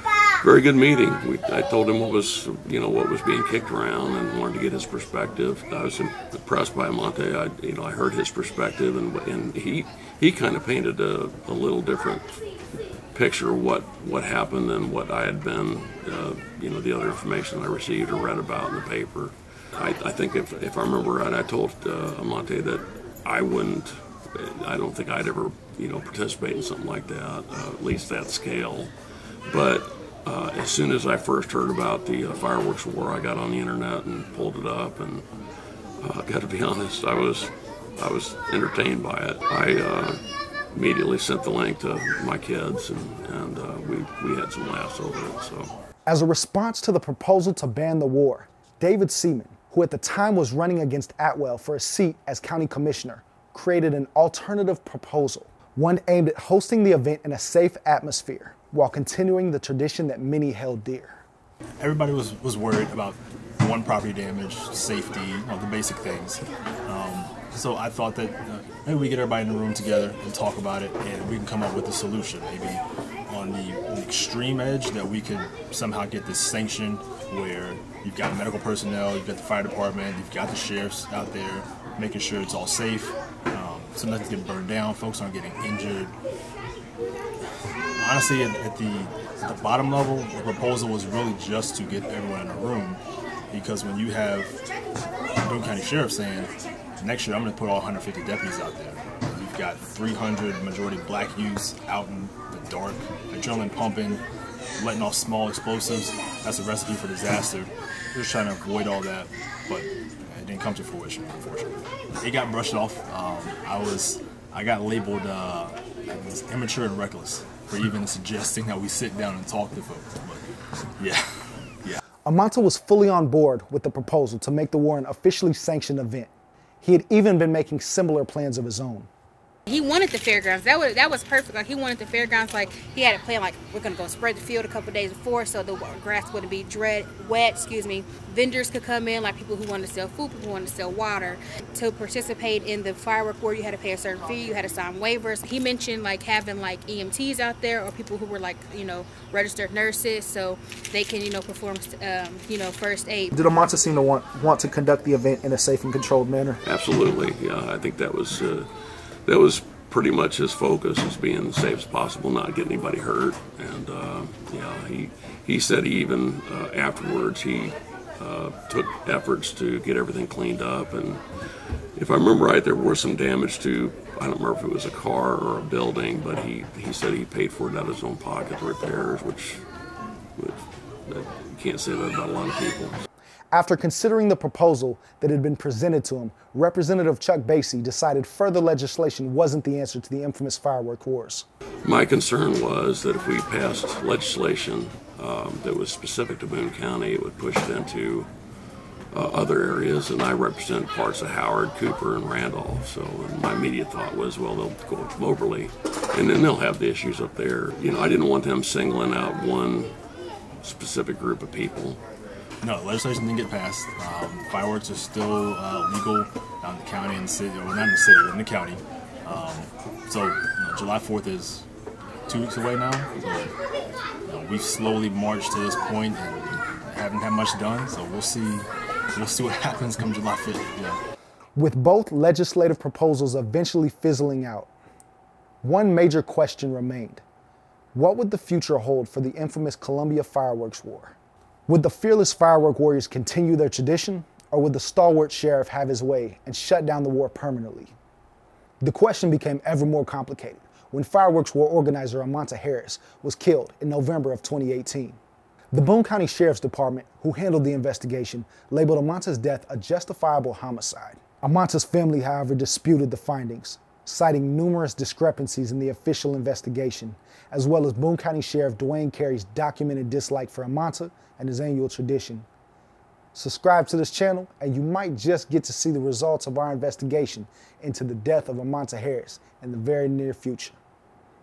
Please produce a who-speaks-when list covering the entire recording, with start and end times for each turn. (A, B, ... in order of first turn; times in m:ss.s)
0:00.4-0:12.4 A
0:13.1-0:28.9 A
0:29.5-0:35.2 A
0:36.0-0:40.2 A
0:40.7-0:45.7 A
0:46.1-1:01.2 B
1:01.8-1:26.1 C
1:28.0-1:33.0 C
1:33.5-1:34.6 C
1:35.4-1:44.2 C
1:44.8-2:00.4 C
2:01.0-2:02.0 C
2:02.3-2:06.3 B
2:06.8-2:09.1 B
2:09.7-2:33.3 D
2:33.3-2:36.6 B
2:36.6-2:38.7 A
2:39.3-2:51.2 A
2:52.0-2:59.6 A
3:00.4-3:03.0 A
3:03.5-3:11.5 B
3:11.8-3:18.3 A
3:19.1-3:30.0 A
3:30.6-3:32.0 A
3:32.6-3:41.6 C
3:42.3-3:43.5 C
3:44.3-3:51.0 C
3:51.6-3:54.7 B
3:55.6-3:57.2 B
3:57.9-4:01.2 B
4:01.7-4:07.9 B
4:08.8-4:15.2 B
4:15.7-4:32.5 B
4:33.4-4:40.8 B